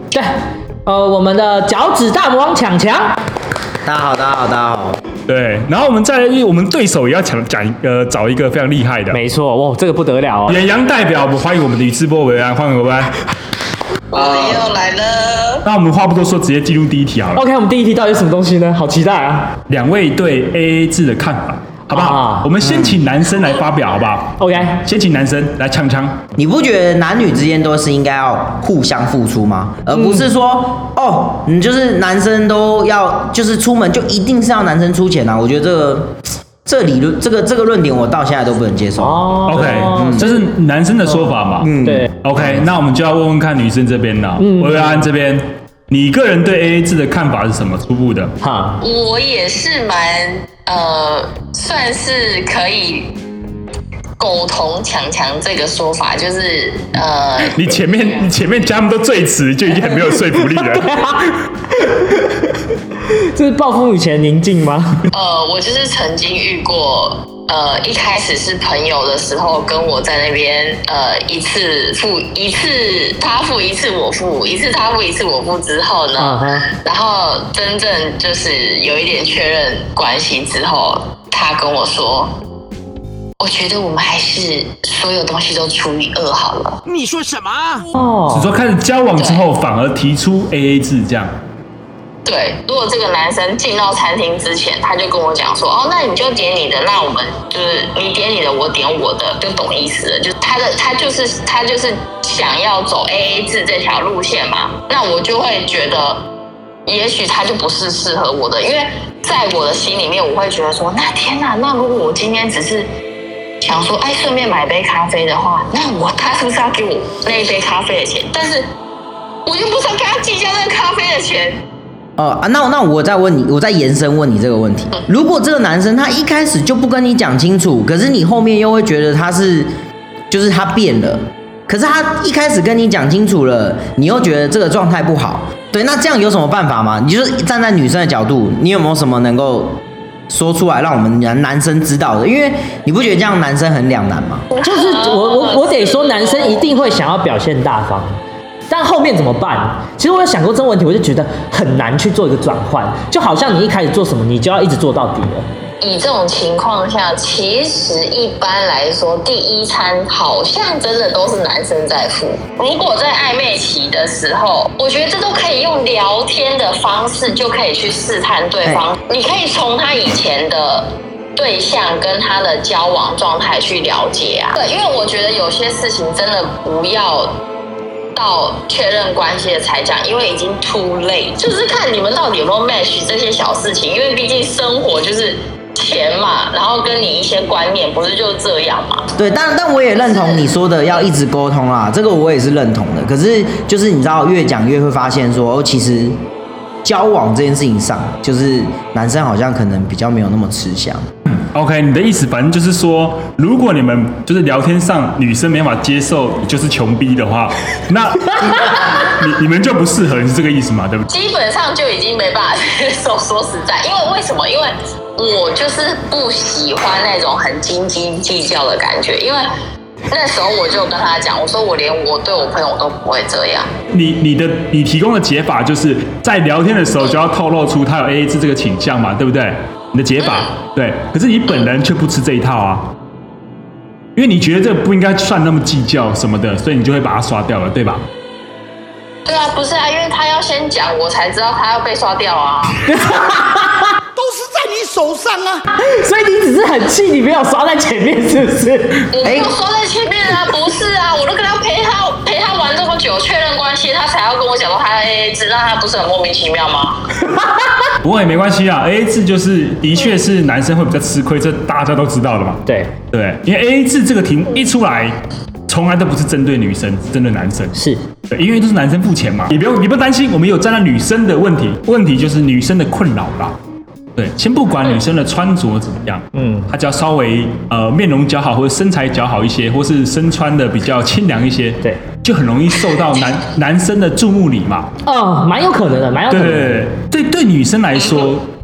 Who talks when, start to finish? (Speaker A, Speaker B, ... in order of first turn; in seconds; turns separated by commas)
Speaker A: 0.8-3.2, Speaker B: 3.8-5.0, Speaker C: 5.3-9.2, Speaker A: 9.1-10.6, Speaker C: 10.5-13.1, Speaker D: 14.1-15.6, Speaker C: 15.6-17.4, Speaker A: 17.3-19.5, Speaker C: 19.7-26.2, Speaker A: 21.9-22.5, Speaker B: 22.6-23.0, Speaker A: 24.4-24.8, Speaker B: 26.4-40.3, Speaker A: 29.9-30.3, Speaker A: 39.0-40.4, Speaker C: 39.5-48.3, Speaker B: 41.6-42.1, Speaker A: 41.8-42.1, Speaker A: 44.4-45.1, Speaker A: 48.4-48.8, Speaker D: 48.8-53.1, Speaker D: 54.2-58.3, Speaker C: 57.5-60.9, Speaker A: 59.9-62.4, Speaker A: 63.1-65.0, Speaker D: 65.1-82.3, Speaker A: 76.2-76.7, Speaker D: 83.4-86.8, Speaker E: 86.9-87.8, Speaker A: 87.9-88.5, Speaker C: 88.3-91.3, Speaker D: 89.2-89.4, Speaker D: 92.2-106.2, Speaker D: 106.8-112.9, Speaker D: 113.6-118.6, Speaker D: 119.5-121.6, Speaker B: 122.2-129.7, Speaker B: 130.3-139.8, Speaker B: 140.3-144.4, Speaker D: 144.5-146.7, Speaker A: 144.6-148.1, Speaker A: 148.7-155.4, Speaker D: 155.8-177.3, Speaker D: 178.1-189.1, Speaker B: 189.2-196.1, Speaker D: 190.0-190.5, Speaker B: 196.8-201.0, Speaker C: 201.3-211.1, Speaker D: 211.1-219.4, Speaker D: 220.1-223.7, Speaker C: 223.9-232.9, Speaker D: 230.2-230.5, Speaker C: 234.2-238.0, Speaker D: 239.2-242.8, Speaker A: 242.8-243.9, Speaker E: 244.3-245.6, Speaker A: 245.7-249.1, Speaker D: 249.1-257.0, Speaker B: 249.2-249.5, Speaker C: 258.0-262.6, Speaker A: 262.6-262.9, Speaker C: 263.1-265.1, Speaker C: 265.7-267.7, Speaker A: 267.7-268.0, Speaker C: 268.3-273.6, Speaker C: 274.1-284.9, Speaker A: 276.3-276.7, Speaker A: 285.0-286.8, Speaker C: 286.3-288.4